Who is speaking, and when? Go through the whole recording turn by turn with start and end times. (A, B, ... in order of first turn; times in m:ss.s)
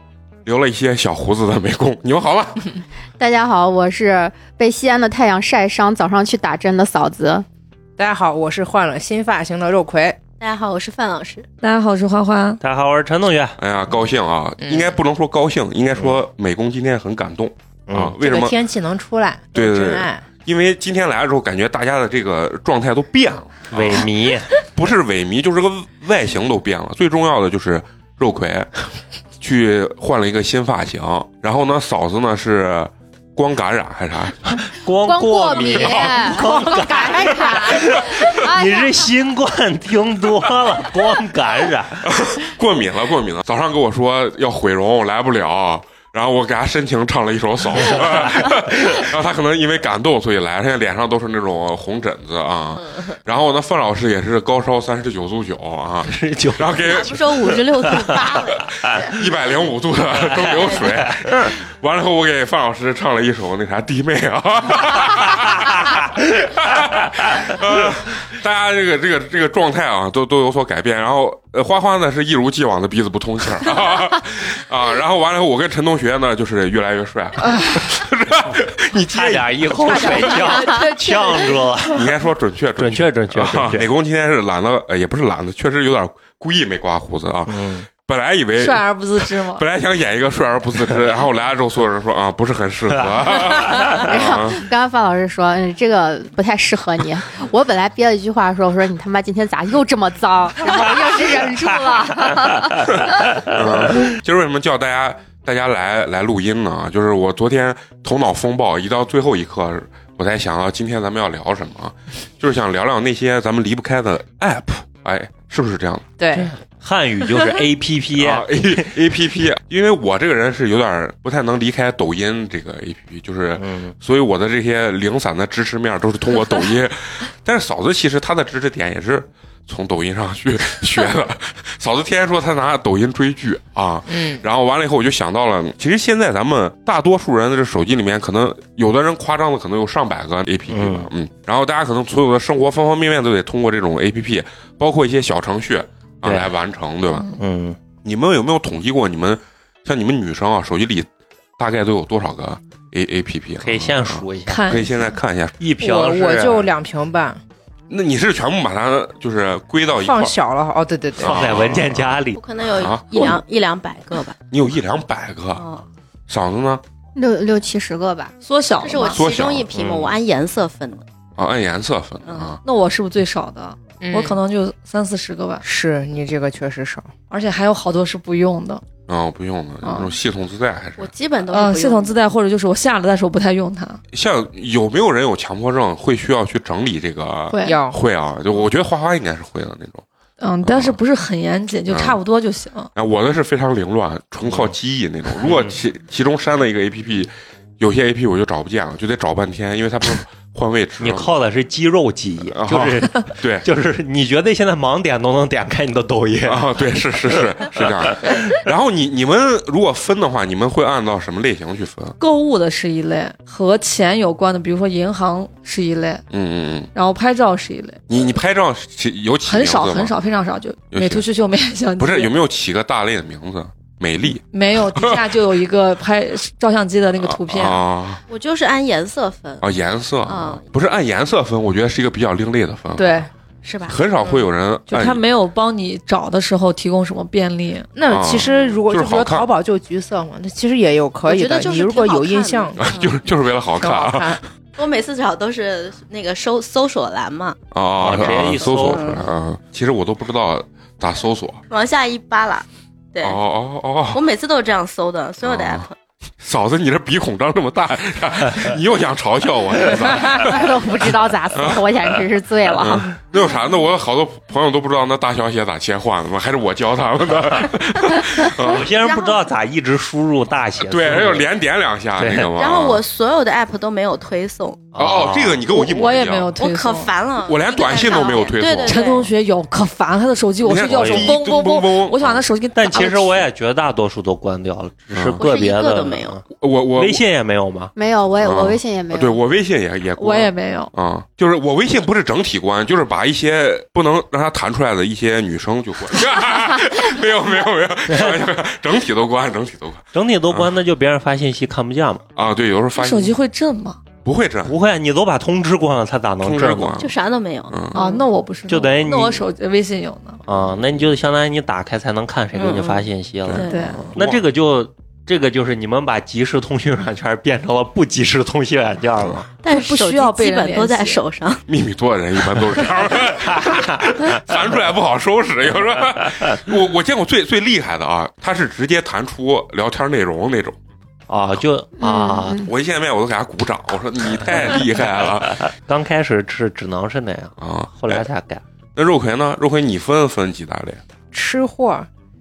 0:00.4-0:02.7 A
0:03.2-0:07.4 B
0:08.0-0:10.2 C
0:10.4-0:11.5 D
0:11.6-0:12.6 E
0:12.6-0:13.6 F
0:13.6-0:18.6 A
0:14.6-0:15.0 C
0:17.9-0:18.2 F
0:18.2-0:20.3 C
0:19.6-0:28.7 A
0:23.7-0:24.6 F
0:29.4-0:34.6 A
0:34.7-0:42.0 F
0:35.0-0:39.1 B
0:35.9-0:36.2 A
0:37.5-0:38.0 A
0:42.0-0:57.2 A
0:48.0-0:48.5 F
0:56.0-0:59.0 F
0:56.9-0:59.1 D
0:59.0-1:20.4 A
1:00.3-1:01.5 F
1:19.1-1:22.1 F
1:20.4-1:21.6 E
1:21.9-1:34.6 A
1:22.8-1:23.9 F
1:27.5-1:27.9 F
1:28.6-1:29.6 E
1:34.0-1:43.3 B
1:40.7-1:42.5 F
1:43.2-1:43.9 F
1:43.4-1:56.1 A
1:56.2-1:56.5 C
1:56.3-1:58.9 F
1:58.2-2:27.2 A
2:03.6-2:03.9 F
2:14.1-2:14.4 C
2:20.7-2:21.1 F
2:26.2-2:26.5 F
2:27.3-2:27.8 F
2:28.0-2:35.6 A
2:33.6-2:34.8 F
2:34.5-2:35.0 E
2:35.6-2:36.7 F
2:35.8-2:37.4 C
2:37.9-2:40.4 A
2:40.0-2:41.4 C
2:41.2-2:43.3 A
2:41.2-2:42.4 F
2:42.4-2:44.4 D
2:44.5-2:45.6 A
2:45.6-2:45.9 D
2:46.3-2:46.8 A
2:47.1-2:48.3 B
2:48.4-2:49.2 E
2:48.8-2:51.0 D
2:49.0-2:50.1 A
2:51.4-2:52.6 A
2:52.2-2:52.6 D
2:52.6-2:55.6 E
2:54.0-2:54.4 C
2:55.6-2:57.1 C
2:57.3-2:58.8 E
2:59.1-3:01.1 A
3:01.0-3:02.2 D
3:01.5-3:04.0 E
3:04.1-3:10.0 A
3:07.5-3:07.8 B
3:07.6-3:08.0 C
3:10.4-3:12.9 E
3:10.6-3:11.0 A
3:11.9-3:12.2 A
3:12.9-3:21.3 A
3:14.5-3:14.7 F
3:15.4-3:15.7 F
3:21.0-3:26.7 F
3:22.5-3:23.7 A
3:26.4-3:32.2 A
3:27.3-3:28.4 F
3:32.2-3:36.2 E
3:36.3-3:36.9 A
3:36.9-3:38.0 E
3:38.1-3:40.2 A
3:39.4-3:42.3 E
3:40.9-3:41.2 A
3:42.0-3:45.5 A
3:44.4-3:47.8 E
3:47.2-3:48.2 A
3:48.3-3:49.7 D
3:49.6-3:53.3 A
3:50.2-3:50.8 D
3:53.0-3:53.2 C
3:53.6-3:54.0 D
3:53.9-3:55.2 A
3:54.9-3:57.9 E
3:57.9-4:02.9 C
3:58.1-3:59.5 A
3:58.4-3:58.8 D
4:01.3-4:03.1 D
4:02.8-4:04.4 A
4:03.8-4:04.4 C
4:04.8-4:07.6 D
4:07.7-4:11.6 A
4:08.0-4:09.2 F
4:08.1-4:09.3 D
4:11.7-4:13.4 D
4:13.2-4:14.2 A
4:14.1-4:15.9 D
4:15.4-4:15.9 A
4:16.4-4:21.8 A
4:20.4-4:23.1 B
4:22.8-4:28.8 A
4:28.6-4:31.5 F
4:29.0-4:29.5 D
4:30.8-4:33.0 A
4:32.2-4:32.5 F
4:32.6-4:34.8 D
4:34.9-4:35.6 F
4:35.0-4:36.6 A
4:35.7-4:37.1 E
4:36.6-4:39.3 D
4:37.4-4:39.0 A
4:38.9-4:43.4 E
4:40.6-4:42.4 A
4:40.9-4:41.3 F
4:42.7-4:46.4 F
4:45.1-4:45.4 A
4:45.4-4:46.4 D
4:46.6-4:47.2 A
4:47.0-4:47.9 F
4:48.0-4:49.4 B
4:48.4-5:00.8 A
4:50.2-4:50.9 E
4:58.1-4:58.4 F
5:00.1-5:02.2 F
5:02.4-5:03.4 A
5:02.9-5:04.0 E
5:04.2-5:04.8 A
5:04.7-5:07.0 F
5:06.4-5:07.1 A
5:07.0-5:08.2 D
5:07.7-5:08.0 A
5:07.9-5:10.4 E
5:08.7-5:09.5 F
5:10.4-5:19.5 F
5:12.6-5:14.1 D
5:13.4-5:14.4 A
5:13.7-5:14.1 E
5:19.6-5:21.6 D
5:19.7-5:21.2 E
5:21.7-5:30.8 A
5:31.3-5:32.6 F
5:32.0-5:32.7 B
5:32.6-5:35.7 A
5:35.7-5:38.6 F
5:37.6-5:38.2 A
5:38.9-5:41.0 A
5:41.3-5:42.1 C